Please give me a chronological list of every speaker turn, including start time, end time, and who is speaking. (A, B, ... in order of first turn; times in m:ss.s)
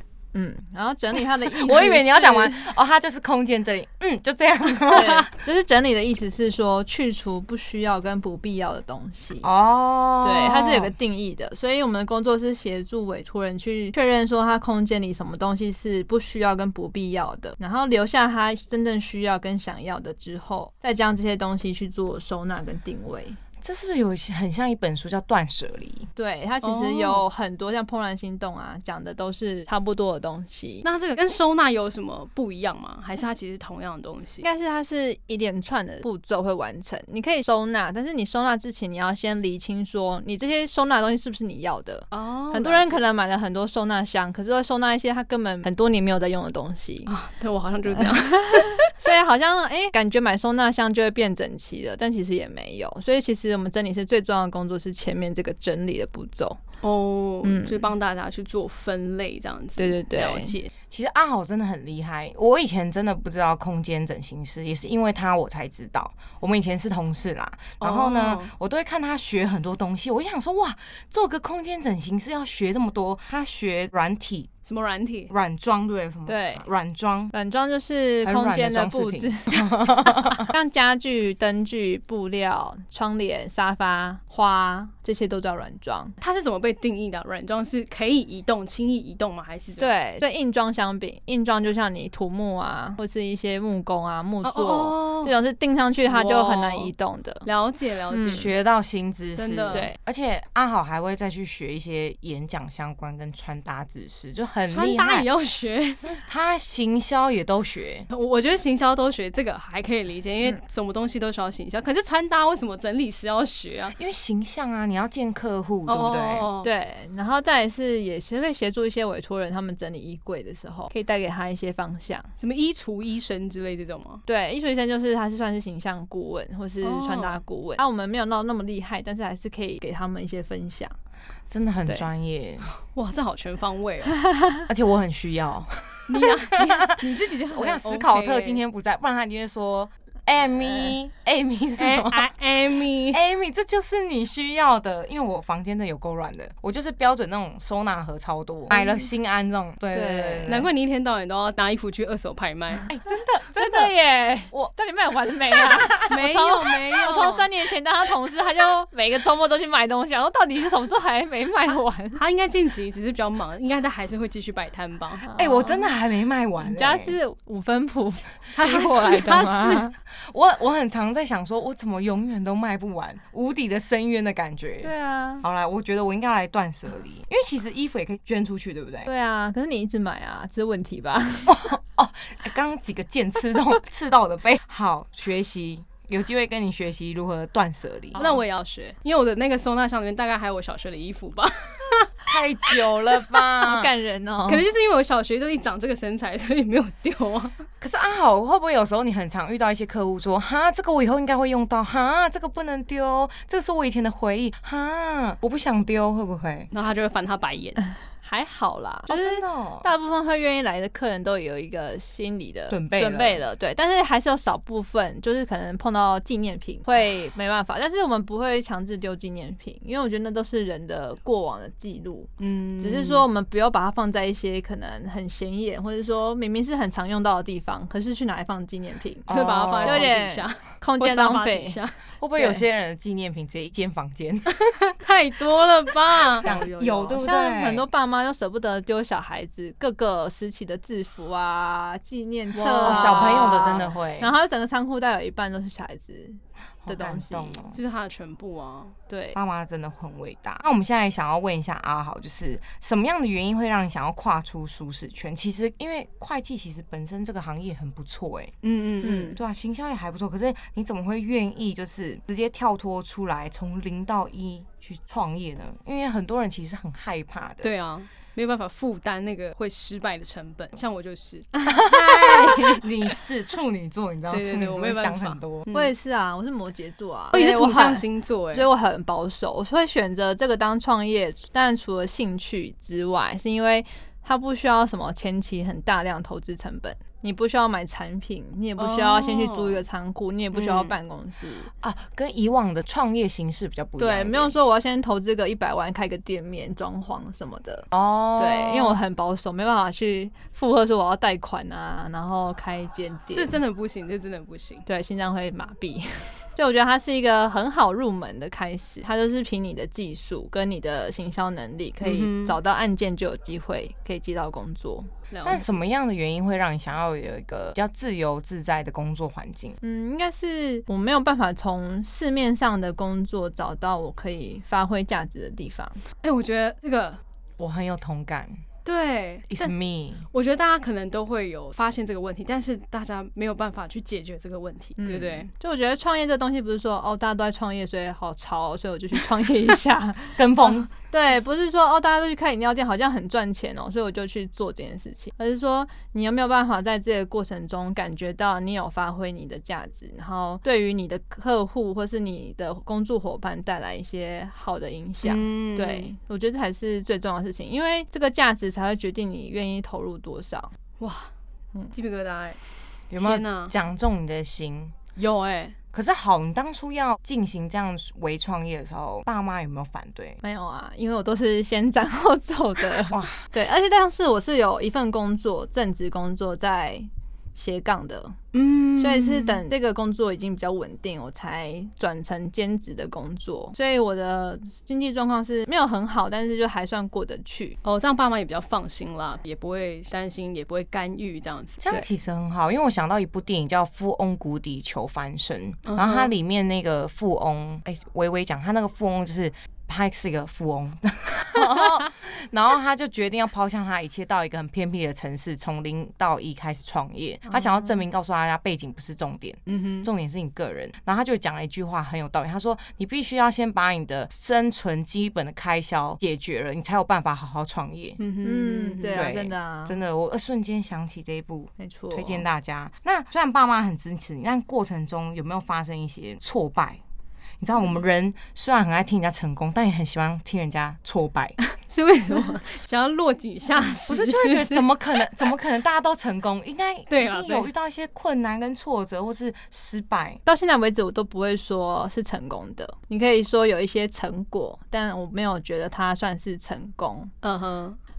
0:00.3-0:02.7 A
0:01.5-0:05.3 B
0:04.8-0:09.5 A
0:09.4-0:10.9 B
0:10.2-0:23.4 A
0:23.6-0:26.1 B
0:26.2-0:30.9 A
0:26.6-0:27.2 C
0:30.8-0:34.4 C
0:34.4-0:47.1 A
0:42.1-0:43.0 C
0:47.1-0:48.9 C
0:47.9-0:56.6 A
0:56.8-1:00.7 C
0:57.4-0:57.9 A
0:59.8-1:00.5 A
1:00.9-1:14.5 B
1:07.8-1:08.5 C
1:14.6-1:15.3 C
1:15.3-1:17.3 B
1:16.3-1:16.6 A
1:17.3-1:26.1 A
1:18.2-1:20.5 B
1:26.2-1:29.9 C
1:29.8-1:37.4 A
1:34.4-1:35.3 C
1:36.0-1:36.9 C
1:37.4-1:38.5 C
1:38.1-1:38.5 A
1:38.2-1:45.3 B
1:39.4-1:39.9 C
1:44.7-1:46.2 C
1:46.2-1:48.1 B
1:48.1-1:53.9 C
1:54.0-1:56.5 B
1:55.9-1:56.7 C
1:56.6-2:02.3 A
2:02.4-2:04.2 C
2:04.3-2:10.9 A
2:06.8-2:07.4 C
2:11.5-2:12.7 B
2:12.9-2:14.2 C
2:14.3-2:14.6 A
2:14.7-2:22.5 B
2:16.1-2:18.6 C
2:21.8-2:23.2 C
2:23.1-2:30.7 B
2:28.7-2:29.0 A
2:29.9-2:30.6 A
2:30.5-2:32.8 C
2:32.9-2:33.9 B
2:33.5-2:42.2 A
2:35.5-2:36.0 B
2:36.1-2:37.5 C
2:42.2-2:45.2 C
2:45.2-2:45.9 A
2:45.4-2:47.1 B
2:46.6-2:49.9 A
2:48.6-2:49.3 C
2:48.7-2:59.1 B
2:54.8-2:55.4 A
2:59.1-3:01.6 A
3:01.4-3:08.3 B
3:08.1-3:08.4 A
3:08.2-3:12.3 C
3:12.3-3:13.9 B
3:13.5-3:14.6 A
3:14.5-3:17.6 C
3:17.8-3:26.7 B
3:26.7-3:27.8 C
3:28.2-3:49.3 A
3:29.1-3:29.9 B
3:32.7-3:33.4 B
3:42.4-3:43.2 C
3:49.3-3:50.1 B
3:49.3-3:52.0 C
3:49.8-3:51.8 A
3:52.2-3:54.6 B
3:54.7-3:57.2 C
3:56.4-3:57.9 B
3:57.2-4:07.6 A
4:02.5-4:03.6 C
4:02.8-4:04.3 B
4:06.8-4:07.8 B
4:07.7-4:08.9 C
4:09.1-4:09.4 A
4:09.3-4:18.5 B
4:18.6-4:19.4 C
4:19.0-4:19.4 A
4:19.3-4:27.7 B
4:27.6-4:31.5 C
4:31.5-4:32.8 A
4:31.7-4:35.7 B
4:34.3-4:35.9 C
4:35.7-4:51.7 A
4:37.3-4:38.7 C
4:48.8-4:49.8 C
4:50.5-4:50.9 C
4:51.8-4:54.5 B
4:54.0-5:03.6 A
4:57.9-4:59.0 B
5:03.3-5:04.8 C
5:04.8-5:15.1 A
5:12.0-5:12.6 C
5:15.3-5:15.7 C
5:15.4-5:19.8 B
5:19.8-5:26.0 A
5:26.2-5:27.2 C
5:27.6-5:28.6 B
5:28.8-5:29.7 C
5:29.5-5:30.2 B
5:30.3-5:35.5 C
5:35.0-6:00.7 A
5:40.4-5:40.9 B
5:55.2-5:56.1 C
6:01.0-6:01.3 C
6:01.9-6:02.6 C
6:03.1-6:04.9 B
6:03.1-6:03.7 C
6:05.2-6:05.8 C
6:05.9-6:10.4 B
6:10.4-6:18.4 A
6:13.1-6:13.4 B
6:18.5-6:19.6 C
6:19.0-6:27.8 A
6:27.8-6:31.8 C
6:31.8-6:58.2 B
6:35.8-6:36.3 C
6:47.5-6:47.9 A
6:49.7-6:50.1 C
6:58.2-6:59.3 C
6:58.4-7:00.0 A
6:59.1-7:07.0 B
7:01.8-7:02.4 A
7:07.6-7:11.6 B
7:11.8-7:15.0 C
7:14.1-7:20.4 B
7:17.1-7:17.7 C
7:20.4-7:27.3 A
7:27.4-7:28.0 C